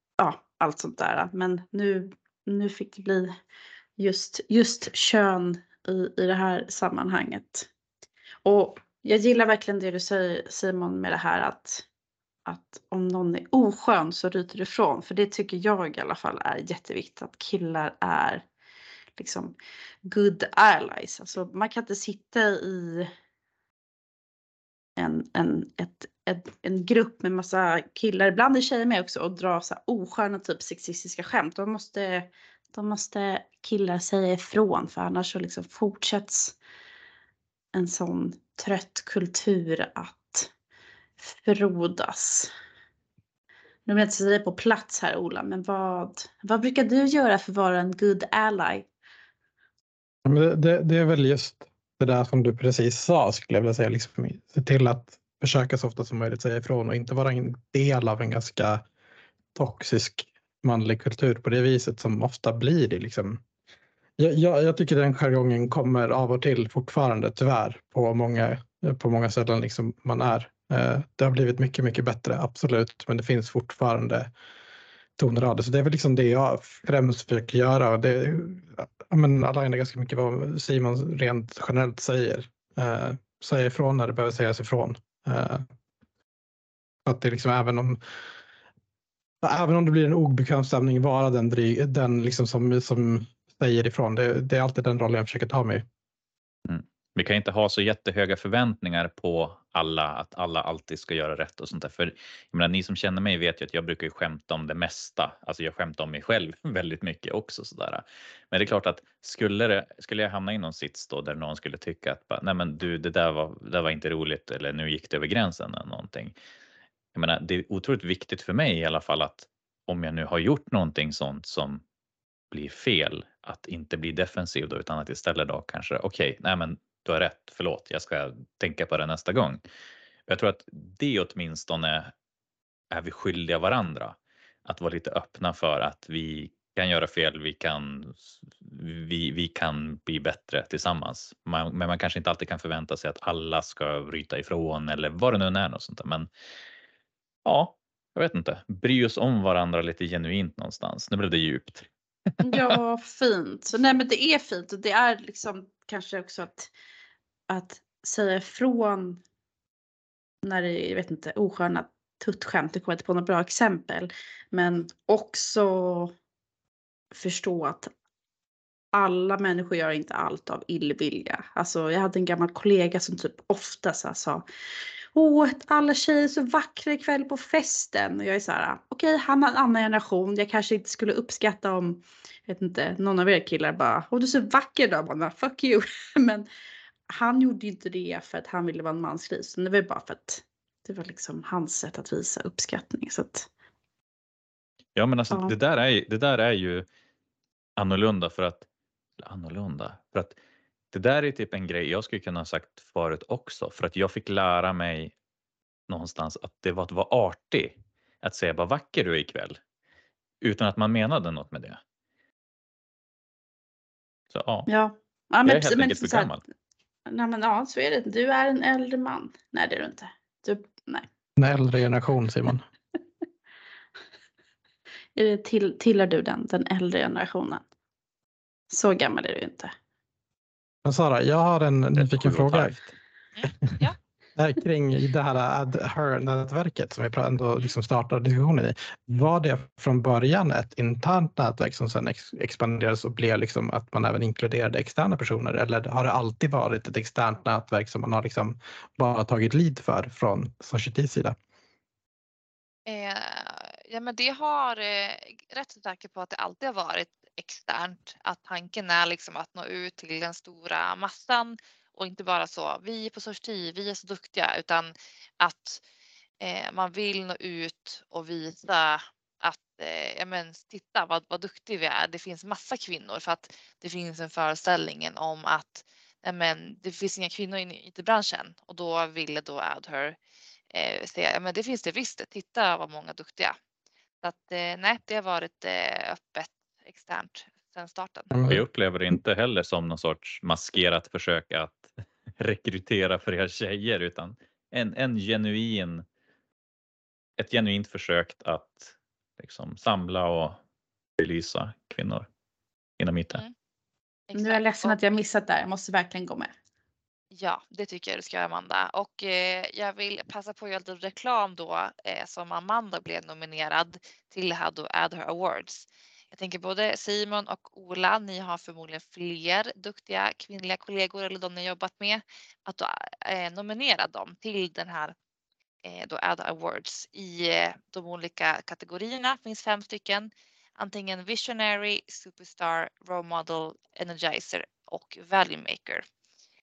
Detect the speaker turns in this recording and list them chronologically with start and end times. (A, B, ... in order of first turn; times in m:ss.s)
0:00.2-0:03.3 A
0:04.0-0:07.7 A
0:08.4-0:11.8 A
0:12.4-0:18.4 A
0:19.2-0:23.1 A
0:25.0-0:36.6 A
0:37.7-0:40.5 A
0:41.2-0:42.5 A
0:43.8-0:48.9 A
0:50.2-0:58.8 B
0:59.5-1:03.4 B
1:04.2-1:14.3 B
1:15.2-1:25.6 B
1:27.0-1:28.0 B
1:29.4-1:35.8 B
1:36.6-1:56.3 C
1:57.1-2:01.8 C
2:02.5-2:09.6 C
2:10.3-2:12.1 C
2:12.9-2:26.3 C
2:27.4-2:31.9 C
2:32.4-2:36.7 A
2:32.4-2:32.8 C
2:37.5-2:39.2 A
2:40.4-2:46.1 A
2:47.1-2:47.9 A
2:48.9-2:54.4 A
2:55.1-3:06.4 A
3:07.1-3:13.5 A
3:14.9-3:16.8 C
3:17.8-3:18.6 C
3:19.2-3:20.4 C
3:20.9-3:25.1 C
3:25.9-3:29.6 C
3:30.4-3:31.8 C
3:34.3-3:34.7 C
3:34.7-3:36.3 A
3:35.4-3:36.4 C
3:37.1-3:41.0 A
3:41.4-3:42.6 B
3:45.1-3:47.6 A
3:48.7-3:49.7 A
3:50.8-3:52.7 B
3:52.0-3:52.9 C
3:53.4-3:54.0 D
3:54.4-4:11.4 B
4:12.9-4:25.8 D
4:26.4-4:40.2 D
4:40.7-4:43.6 D
4:44.2-4:48.3 D
4:48.3-4:48.6 B
4:48.4-4:56.0 C
4:57.4-5:00.6 C
5:01.2-5:02.3 C
5:03.0-5:03.4 C
5:04.3-5:05.0 D
5:04.4-5:06.5 A
5:07.3-5:25.1 D
5:25.8-5:36.0 D